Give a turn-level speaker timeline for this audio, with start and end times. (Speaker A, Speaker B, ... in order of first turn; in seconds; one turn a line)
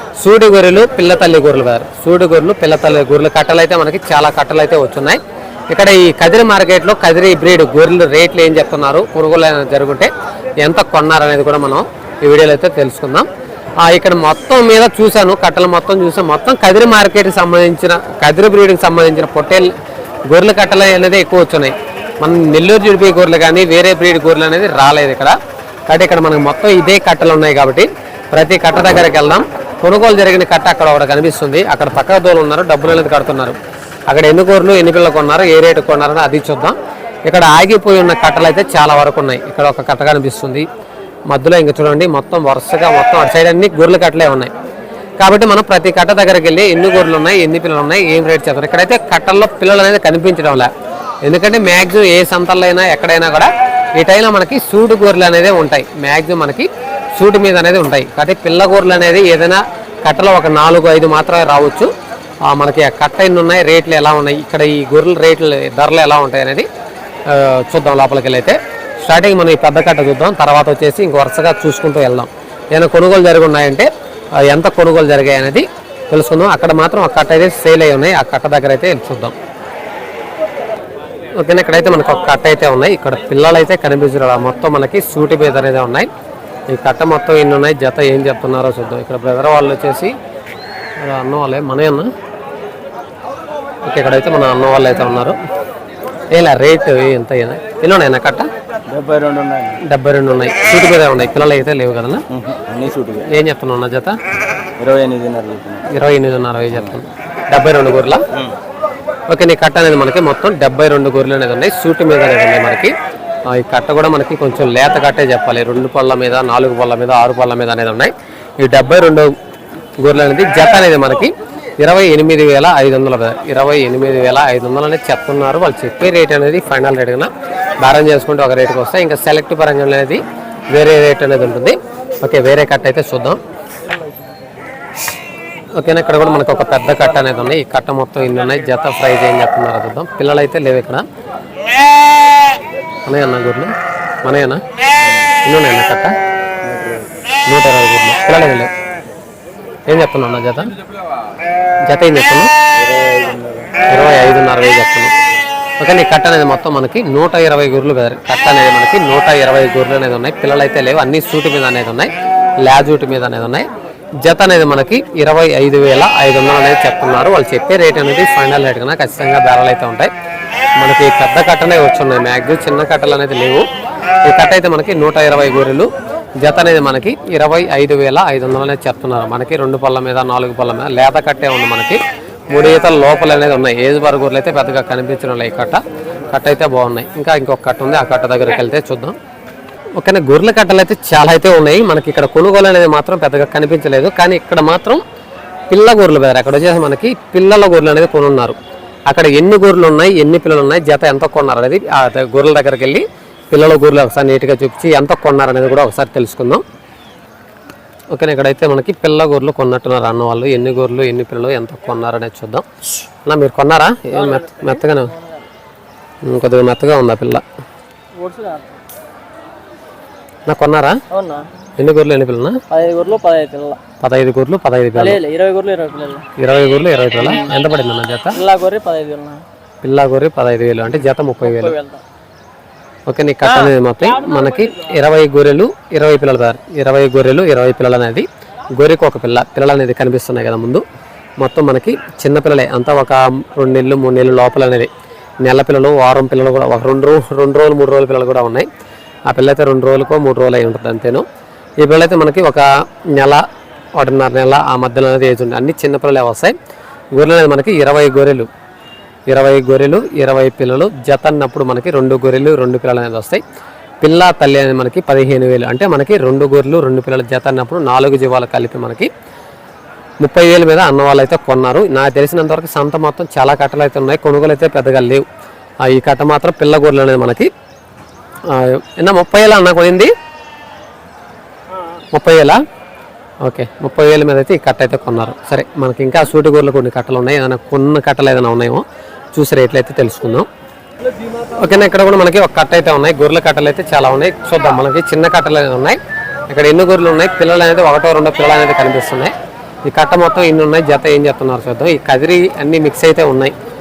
Speaker A: 0.2-10.1
Speaker A: 10.6-13.3
Speaker A: 13.8-19.7
Speaker A: 20.3-25.4
Speaker A: 25.9-33.6
Speaker A: 34.1-40.6
Speaker A: 41.3-44.5
Speaker A: 45.2-50.7
Speaker A: 51.2-61.9
Speaker A: 62.4-66.7
Speaker A: 67.3-79.3
Speaker A: 81.3-86.1
Speaker A: 86.7-90.1
Speaker A: 91.0-92.1
Speaker A: 93.8-95.4
Speaker A: 96.3-98.5
Speaker B: 98.9-99.8
Speaker A: 99.8-102.2
Speaker B: 102.3-103.3
Speaker A: 103.3-104.2
Speaker B: 104.8-105.8
Speaker A: 105.9-108.2
Speaker B: 106.7-107.0
Speaker A: 109.3-112.9
Speaker A: 113.5-119.3
Speaker A: 120.0-127.3
Speaker A: 127.8-133.4
Speaker A: 135.7-141.1
Speaker A: 143.1-143.7
Speaker A: 144.2-144.6
Speaker A: 145.4-146.1
Speaker B: 146.7-147.1
Speaker A: 147.5-148.7
Speaker A: 149.9-150.7
Speaker A: 151.9-152.5
Speaker B: 152.8-153.7
Speaker A: 153.9-155.1
Speaker A: 155.8-162.1
Speaker A: 162.6-163.7
Speaker A: 164.2-170.1
Speaker A: 170.8-173.7
Speaker A: 174.2-189.2
Speaker A: 190.0-195.0
Speaker A: 195.7-198.6
Speaker A: 199.1-206.6
Speaker A: 208.1-212.6
Speaker A: 213.2-215.1
Speaker C: 214.1-215.5
Speaker A: 216.2-217.4
Speaker C: 218.2-218.8
Speaker A: 220.5-221.0
Speaker C: 221.1-221.5
Speaker A: 221.8-222.6
Speaker C: 222.7-223.8
Speaker A: 224.0-225.2
Speaker C: 225.0-226.3
Speaker A: 226.4-228.4
Speaker C: 228.3-229.4
Speaker A: 229.8-231.8
Speaker C: 231.4-232.0
Speaker A: 233.1-240.8
Speaker C: 233.4-233.7
Speaker A: 241.4-244.9
Speaker A: 245.4-248.7
Speaker A: 249.3-251.2
Speaker A: 251.8-253.4
Speaker A: 253.9-256.5
Speaker A: 257.1-258.5
Speaker A: 259.3-263.4
Speaker A: 264.0-269.1
Speaker A: 270.2-275.2
Speaker A: 275.8-277.5
Speaker A: 278.5-280.1
Speaker A: 282.1-282.6
Speaker A: 283.4-290.5
Speaker A: 291.6-296.0
Speaker A: 296.5-303.5